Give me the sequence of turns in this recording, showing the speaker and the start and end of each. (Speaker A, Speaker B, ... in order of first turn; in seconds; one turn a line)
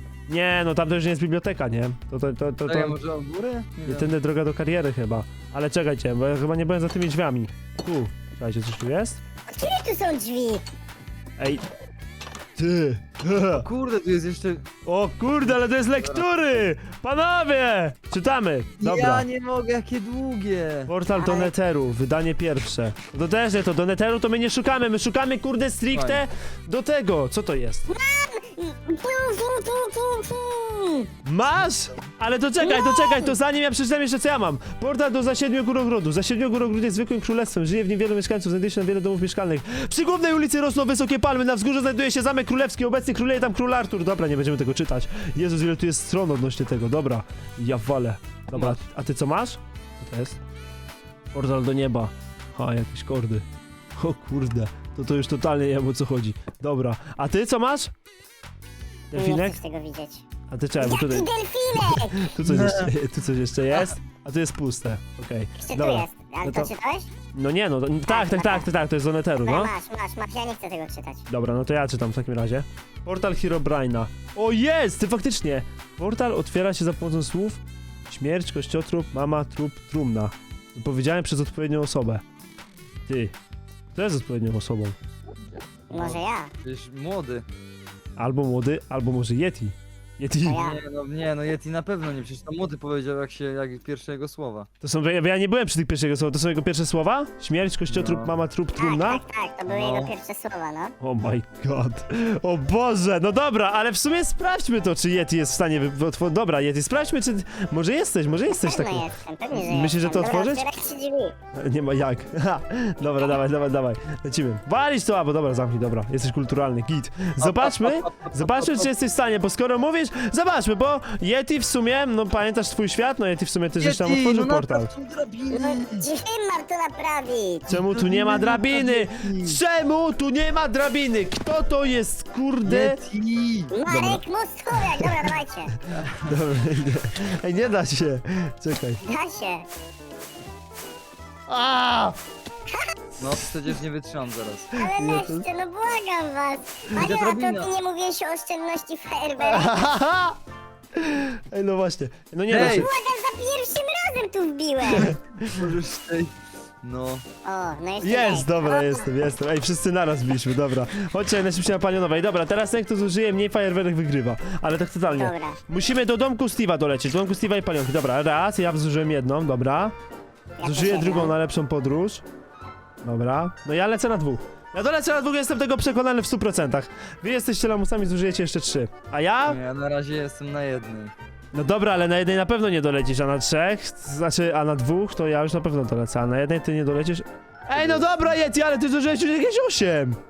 Speaker A: 0.3-3.0
Speaker B: 2.7-4.1
Speaker A: 3.9-9.2
Speaker C: 9.5-10.6
Speaker A: 11.4-11.7
Speaker A: 12.6-13.7
Speaker B: 13.6-14.7
Speaker A: 14.8-19.3
Speaker B: 15.5-16.6
Speaker B: 18.8-20.9
Speaker A: 20.9-27.9
Speaker C: 21.1-21.5
Speaker B: 25.9-26.2
Speaker C: 27.9-31.1
Speaker A: 31.2-50.4
Speaker C: 32.6-33.4
Speaker B: 48.5-48.8
Speaker A: 51.3-53.5
Speaker A: 54.0-57.9
Speaker A: 59.1-59.6
Speaker C: 59.2-60.2
Speaker A: 60.5-66.7
Speaker C: 60.8-62.4
Speaker B: 62.4-62.9
Speaker C: 65.6-67.1
Speaker A: 67.3-69.7
Speaker C: 68.1-68.7
Speaker C: 69.5-71.2
Speaker A: 71.3-82.2
Speaker A: 83.1-83.3
Speaker A: 83.9-85.0
Speaker C: 85.9-86.5
Speaker B: 85.9-87.5
Speaker A: 88.2-90.6
Speaker C: 90.4-90.8
Speaker B: 90.5-94.7
Speaker A: 94.8-99.2
Speaker B: 97.9-98.3
Speaker C: 98.8-101.0
Speaker B: 99.7-100.1
Speaker A: 101.0-110.7
Speaker C: 108.5-111.3
Speaker A: 111.5-124.9
Speaker B: 117.4-118.9
Speaker B: 123.8-126.1
Speaker C: 125.5-127.7
Speaker A: 127.7-133.0
Speaker B: 127.7-129.6
Speaker B: 132.7-134.2
Speaker C: 133.7-135.7
Speaker A: 134.8-135.2
Speaker B: 135.9-136.3
Speaker A: 136.2-139.0
Speaker C: 139.0-139.7
Speaker A: 141.5-142.2
Speaker C: 142.7-142.9
Speaker B: 143.2-144.7
Speaker C: 144.7-149.8
Speaker A: 144.8-145.4
Speaker B: 146.9-147.7
Speaker A: 149.4-150.4
Speaker A: 151.0-152.9
Speaker B: 152.5-152.9
Speaker C: 152.6-155.2
Speaker A: 154.9-155.6
Speaker B: 155.4-157.2
Speaker C: 157.4-159.1
Speaker A: 158.0-169.9
Speaker C: 165.1-165.6
Speaker C: 170.6-171.3
Speaker A: 170.6-172.2
Speaker A: 173.0-179.6
Speaker B: 179.5-181.1
Speaker A: 181.5-190.2
Speaker B: 187.8-188.3